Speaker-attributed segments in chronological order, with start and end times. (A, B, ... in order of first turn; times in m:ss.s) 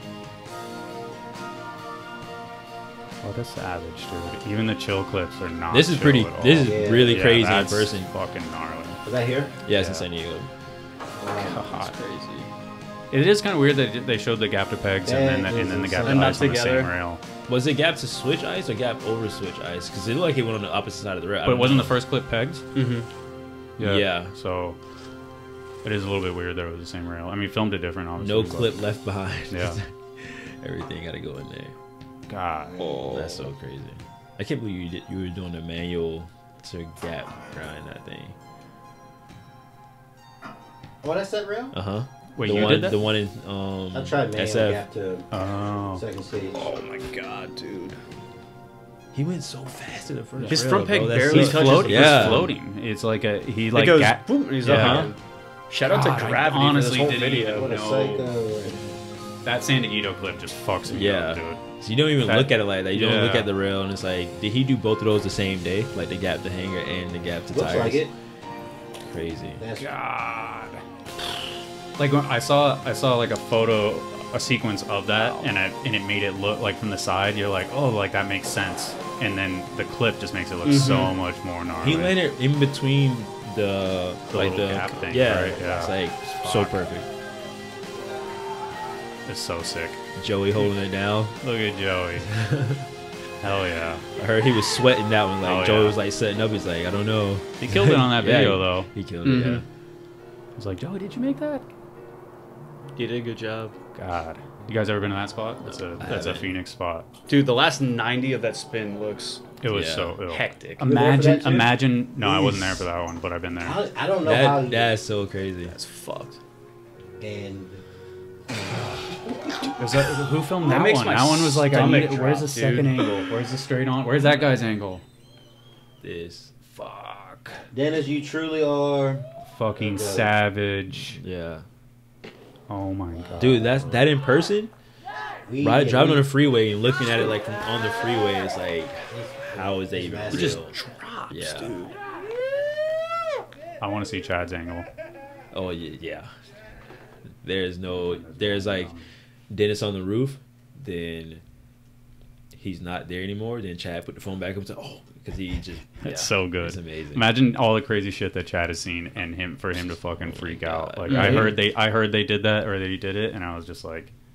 0:03.2-0:09.0 A
0:05.7-0:08.1 B
0:06.6-0:07.3 C
0:09.0-0:09.5 C
0:09.6-0:10.5 B
0:09.7-0:10.1 A
0:11.2-0:11.7 C
0:11.4-0:12.0 A
0:11.8-0:12.5 B
0:13.1-0:17.2 A
0:15.0-0:16.4 C
0:16.0-0:16.9 D
0:17.5-0:22.0 B
0:21.4-0:22.7 A
0:22.7-0:23.1 D
0:23.8-0:24.8 A
0:23.8-0:24.4 B
0:25.8-0:28.8 A
0:28.2-0:31.8 B
0:29.5-0:29.8 A
0:32.3-0:32.8 A
0:32.8-0:33.1 D
0:33.1-0:38.4 B
0:41.0-0:41.8 C
0:41.7-0:44.8 B
0:42.3-0:43.0 A
0:43.9-0:46.7 C
0:45.3-0:46.0 A
0:46.6-0:48.0 D
0:49.1-0:52.5 B
0:50.4-0:50.6 A
0:50.5-0:52.5 D
0:51.2-0:55.1 A
0:53.7-0:57.7 D
0:54.6-0:55.2 B
0:55.8-0:58.3 A
0:57.6-0:59.0 C
0:59.4-1:03.5 A
1:00.9-1:08.1 B
1:07.5-1:08.1 C
1:09.1-1:09.6 B
1:09.6-1:09.9 C
1:09.8-1:10.8 A
1:12.0-1:22.2 A
1:15.2-1:15.5 B
1:20.6-1:21.2 D
1:21.8-1:27.1 B
1:24.3-1:26.8 A
1:29.3-1:30.0 A
1:30.2-1:31.4 B
1:31.3-1:32.4 A
1:32.4-1:32.8 B
1:33.4-1:34.0 A
1:34.2-1:39.6 B
1:35.4-1:36.0 A
1:37.6-1:38.9 A
1:39.2-1:39.6 D
1:40.6-1:41.6 A
1:43.0-1:43.8 D
1:44.0-1:47.1 A
1:45.7-1:46.5 B
1:47.3-1:49.6 D
1:49.6-1:53.8 A
1:49.6-1:50.3 B
1:50.3-1:50.9 D
1:50.8-1:52.9 C
1:53.6-1:55.0 C
1:54.2-1:55.8 B
1:55.6-1:56.4 D
1:57.2-1:57.8 C
1:59.8-2:05.0 A
2:00.6-2:03.1 D
2:06.0-2:06.6 B
2:06.7-2:07.6 A
2:07.7-2:10.3 C
2:09.4-2:11.2 A
2:11.2-2:11.7 B
2:12.7-2:13.6 A
2:13.1-2:14.1 C
2:13.4-2:14.7 B
2:15.5-2:16.3 C
2:15.6-2:20.8 B
2:19.1-2:20.6 C
2:20.3-2:22.0 D
2:21.3-2:21.9 B
2:23.8-2:24.9 A
2:25.5-2:26.3 B
2:27.4-2:29.0 B
2:27.9-2:29.1 A
2:29.5-2:31.4 B
2:32.5-2:37.3 B
2:36.0-2:44.1 A
2:40.0-2:41.6 B
2:41.1-2:41.6 D